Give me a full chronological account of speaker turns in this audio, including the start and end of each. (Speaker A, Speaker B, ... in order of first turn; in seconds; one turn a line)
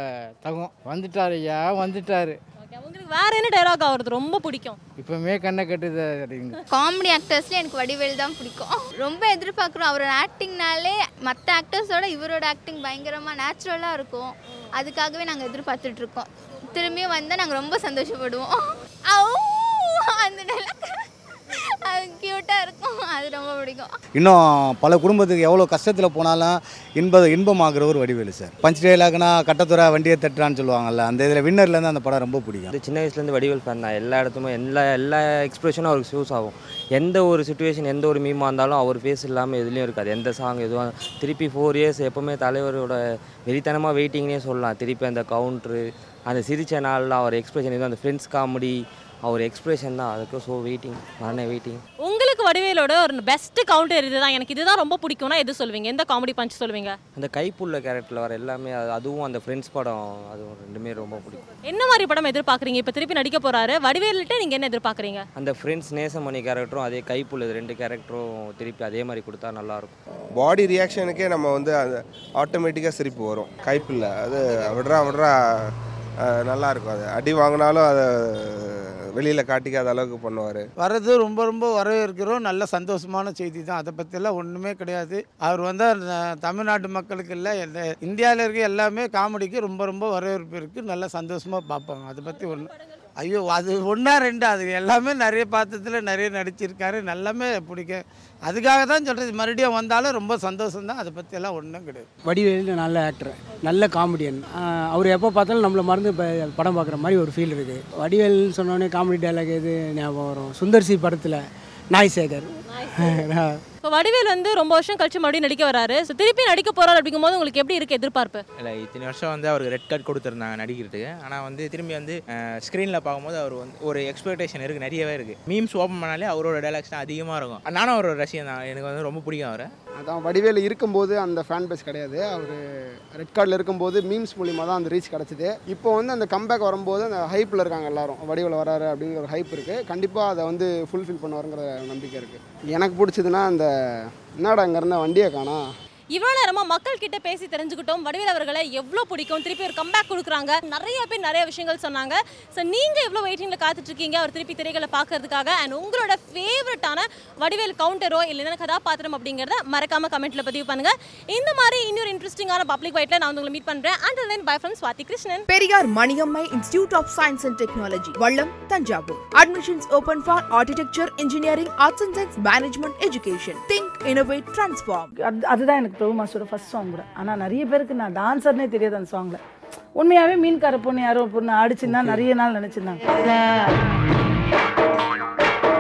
Speaker A: 0.4-2.4
Speaker B: 2.6-4.8
Speaker A: 5.0-6.6
Speaker C: 6.7-23.9
Speaker D: 24.2-32.7
Speaker E: 32.7-51.8
Speaker B: 52.0-57.0
Speaker E: 57.1-61.4
Speaker B: 61.7-65.2
Speaker E: 65.4-69.9
Speaker F: 70.4-75.3
Speaker F: 76.3-80.7
Speaker G: 80.8-102.1
Speaker H: 102.2-112.5
Speaker H: 113.1-113.6
Speaker B: 113.8-118.4
Speaker I: 118.7-122.1
Speaker I: 122.7-129.6
Speaker J: 130.0-132.6
Speaker J: 133.1-143.7
Speaker J: 144.4-145.7
Speaker B: 146.2-165.4
Speaker K: 165.5-175.1
Speaker L: 175.2-179.4
Speaker L: 180.0-183.0